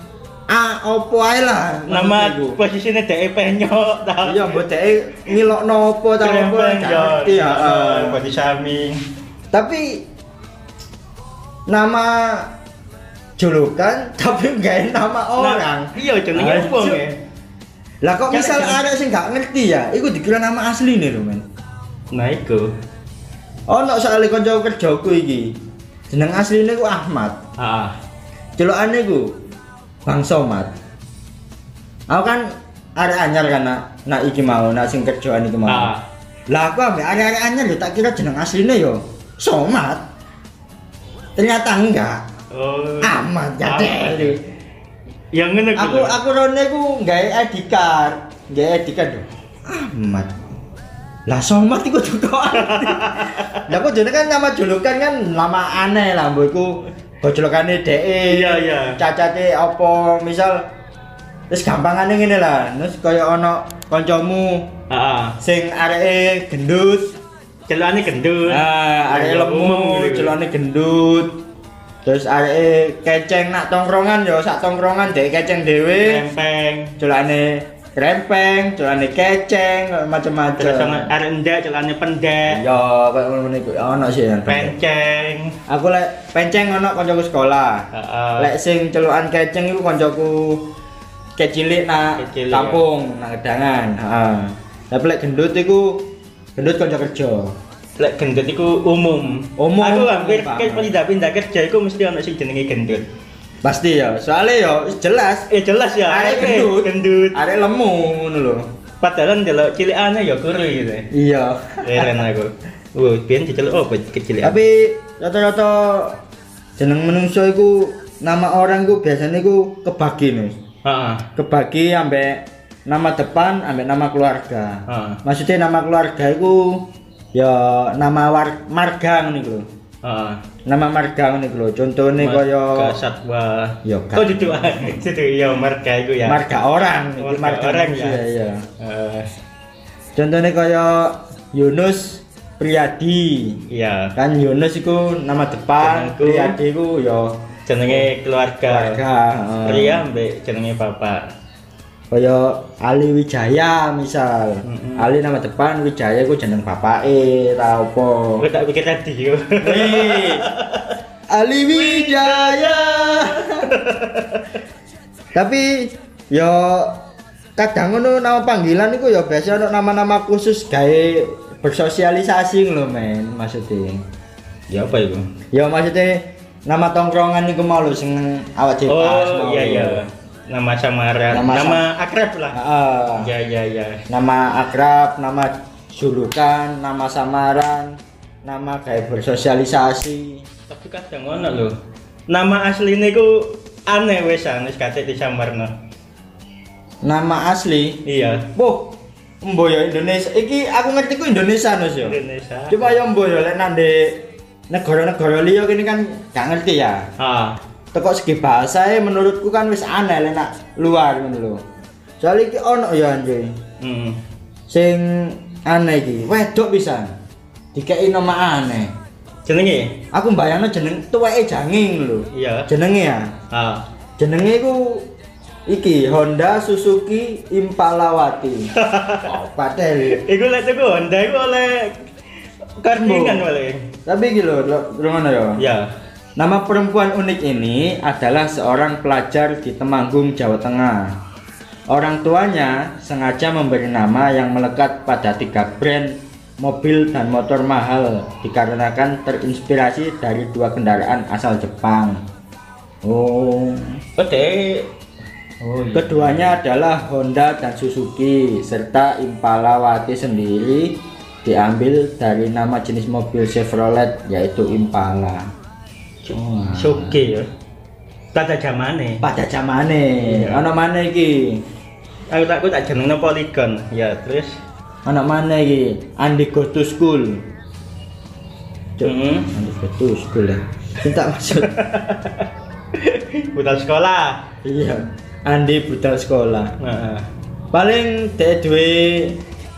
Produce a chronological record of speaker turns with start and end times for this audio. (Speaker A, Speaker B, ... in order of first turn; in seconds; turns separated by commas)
Speaker A: 0.5-2.6, Speaker B: 1.9-4.6, Speaker A: 4.2-8.2, Speaker B: 6.2-9.0, Speaker A: 9.5-10.0, Speaker A: 11.7-12.5, Speaker A: 13.4-17.0, Speaker B: 15.4-17.1, Speaker A: 18.0-21.4, Speaker B: 18.3-18.8, Speaker B: 22.1-22.7, Speaker A: 23.7-25.6, Speaker A: 26.1-27.4, Speaker B: 27.6-28.0, Speaker A: 28.6-29.3, Speaker A: 30.1-30.7, Speaker A: 32.1-35.9, Speaker B: 35.7-36.0, Speaker A: 36.5-40.0, Speaker A: 41.4-42.2, Speaker B: 42.5-44.4, Speaker A: 43.0-44.4, Speaker B: 45.3-46.1, Speaker A: 45.7-50.4, Speaker A: 51.3-60.6, Speaker B: 52.5-53.7, Speaker B: 58.3-59.0, Speaker A: 61.5-64.7, Speaker B: 64.9-65.4, Speaker A: 65.4-67.1, Speaker B: 67.7-70.3, Speaker A: 68.5-71.3, Speaker A: 72.0-76.2, Speaker B: 76.0-77.0, Speaker A: 77.0-81.1, Speaker B: 80.6-82.6, Speaker A: 82.5-84.7, Speaker B: 84.5-85.6, Speaker A: 85.7-87.9, Speaker B: 87.9-88.5, Speaker A: 88.4-90.7, Speaker A: 91.4-97.5, Speaker B: 92.2-92.8, Speaker B: 98.0-103.1, Speaker A: 99.6-100.9, Speaker A: 103.6-105.5, Speaker B: 105.5-107.4, Speaker A: 106.1-108.7, Speaker B: 109.0-111.1, Speaker A: 111.1-112.2, Speaker B: 111.8-114.6, Speaker A: 114.4-116.2, Speaker A: 116.8-120.6, Speaker B: 120.8-121.3, Speaker A: 121.3-129.7, Speaker B: 124.9-125.2, Speaker B: 130.0-130.4, Speaker A: 130.6-133.0, Speaker B: 132.2-136.4, Speaker A: 133.8-134.9, Speaker A: 136.2-138.6, Speaker B: 137.2-138.2, Speaker B: 138.8-139.3, Speaker A: 140.1-143.6, Speaker B: 143.7-144.1, Speaker A: 144.2-148.1, Speaker B: 145.8-146.6, Speaker B: 147.7-149.0, Speaker A: 148.7-150.0, Speaker B: 149.6-151.3, Speaker A: 152.1-158.4, Speaker B: 154.6-155.1, Speaker B: 158.4-160.9, Speaker A: 159.6-160.5, Speaker A: 161.3-163.7, Speaker B: 161.7-164.5, Speaker A: 165.3-167.0, Speaker A: 167.6-174.0, Speaker B: 174.7-175.3, Speaker A: 175.5-180.0, Speaker B: 178.9-182.6, Speaker A: 181.3-181.8, Speaker A: 182.5-183.3, Speaker B: 183.2-184.0, Speaker A: 184.1-190.4, Speaker B: 190.7-191.8, Speaker B: 192.3-195.7, Speaker A: 197.0-198.0, Speaker B: 198.0-198.5, Speaker A: 198.5-202.2, Speaker B: 202.0-203.1, Speaker A: 202.7-207.1, Speaker B: 207.2-207.6, Speaker A: 207.9-211.6, Speaker A: 212.2-213.6, Speaker B: 213.8-214.2, Speaker A: 214.7-217.1, Speaker A: 217.7-218.9, Speaker B: 219.4-220.0, Speaker A: 220.1-223.3, Speaker B: 222.3-222.7, Speaker B: 223.5-223.8, Speaker A: 224.2-225.1, Speaker A: 225.7-228.7, Speaker B: 228.7-229.3, Speaker A: 229.2-230.2, Speaker B: 230.1-232.0, Speaker B: 232.8-233.9, Speaker A: 232.9-233.4, Speaker A: 234.1-235.6, Speaker B: 235.6-235.9, Speaker A: 236.3-241.2, Speaker A: 241.9-252.2, Speaker A: 253.0-254.0, Speaker B: 254.2-254.9, Speaker B: 255.6-256.6, Speaker A: 255.9-265.5, Speaker B: 266.2-267.5, Speaker A: 266.3-267.2, Speaker B: 268.3-269.2, Speaker A: 269.2-271.6, Speaker B: 270.2-270.6, Speaker B: 272.3-274.6, Speaker A: 275.0-277.4, Speaker A: 279.0-281.8, Speaker B: 279.0-279.5, Speaker B: 281.5-284.5, Speaker A: 284.6-286.7, Speaker B: 286.8-287.3, Speaker A: 287.7-289.4